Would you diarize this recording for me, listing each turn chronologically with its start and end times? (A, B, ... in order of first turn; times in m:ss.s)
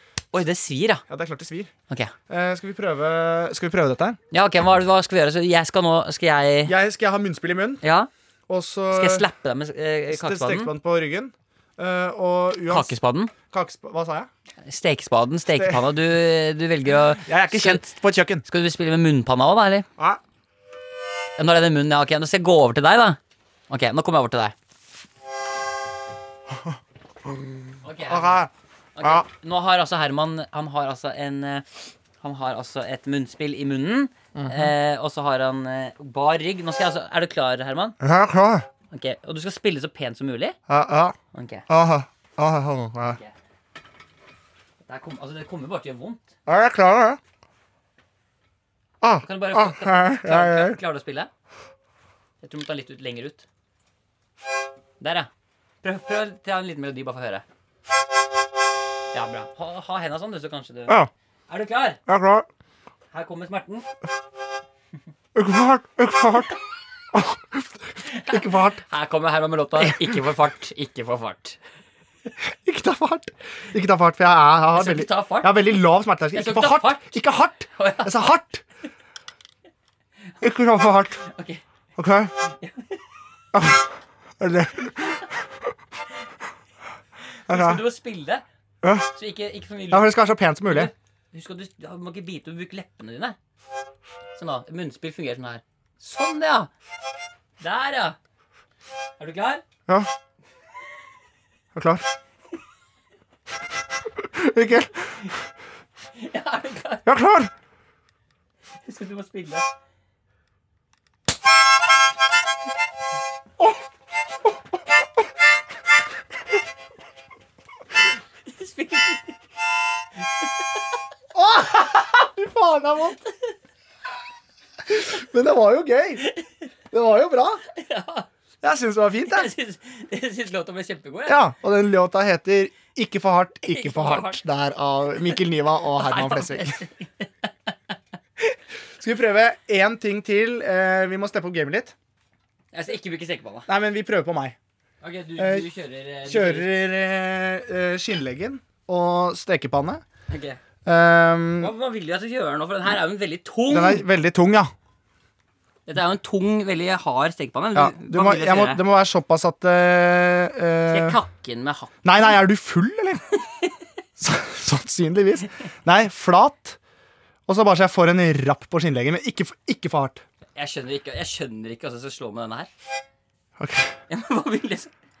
0:00.3-0:01.0 A
0:01.1-0:01.7 B
0:02.3-0:04.2 B
0:04.3-0:06.7 A
0:06.6-0:07.8 B
0:07.8-0:08.1 A
0:08.5-0:09.2 B
0:08.9-0:10.7 A
0:10.1-0:13.0 B
0:12.7-0:13.3 A
0:13.5-0:14.3 B
0:14.6-0:17.8 A
0:15.6-0:15.8 B
0:17.2-0:18.4 B
0:18.4-0:19.8 A
0:21.4-0:24.5 A
0:26.5-0:27.4 B
0:27.8-0:28.4 A
0:28.1-0:28.5 B
0:29.0-0:31.6 A
0:29.0-0:29.2 B
0:32.2-0:38.0 A
0:34.3-0:34.7 B
0:38.0-0:38.6 B
0:38.9-0:40.6 A
0:40.7-0:41.2 B
0:41.3-0:41.6 A
0:41.7-0:43.2 B
0:44.8-0:46.2 A
0:46.4-0:47.2 B
0:49.0-0:50.8 B
0:49.2-0:51.3 A
0:52.4-0:53.4 A
0:55.0-0:55.3 A
0:55.8-0:57.4 A
0:59.1-1:01.0 A
1:01.5-1:02.0 A
1:02.0-1:02.5 B
1:03.1-1:03.9 A
1:05.3-1:06.5 B
1:07.1-1:08.8 B
1:08.1-1:11.6 A
1:09.8-1:10.1 B
1:12.4-1:18.6 B
1:14.7-1:15.7 A
1:16.3-1:17.2 A
1:17.8-1:18.1 A
1:20.4-1:21.2 B
1:21.2-1:21.6 A
1:22.0-1:22.3 B
1:22.6-1:22.9 A
1:23.5-1:25.3 B
1:27.5-1:28.4 A
1:27.5-1:27.8 B
1:28.8-1:29.1 B
1:29.1-1:30.1 A
1:29.9-1:30.9 B
1:30.7-1:33.4 A
1:34.4-1:36.7 A
1:37.6-1:38.2 A
1:39.2-1:39.6 A
1:41.7-1:42.0 B
1:44.2-1:45.2 B
1:46.2-1:47.1 A
1:47.0-1:47.5 B
1:48.8-1:49.7 A
1:58.4-1:59.4 A
2:01.3-2:03.2 B
2:04.9-2:06.3 B
2:06.9-2:07.6 B
2:07.7-2:08.3 A
2:08.6-2:09.5 B
2:09.2-2:11.4 A
2:11.3-2:16.8 B
2:13.7-2:14.4 A
2:16.0-2:17.3 A
2:19.0-2:21.9 B
2:22.7-2:23.7 A
2:23.7-2:24.6 B
2:25.0-2:26.7 A
2:25.4-2:25.7 B
2:26.2-2:30.0 B
2:30.3-2:30.6 A
2:30.8-2:31.7 B
2:31.6-2:34.0 A
2:33.7-2:34.7 B
2:35.9-2:38.8 A
2:37.7-2:41.2 B
2:40.9-2:42.0 A
2:42.0-2:43.2 B
2:44.2-2:46.8 B
2:47.5-2:50.2 B
2:50.6-2:52.7 A
2:53.6-2:53.9 B
2:54.1-2:54.9 A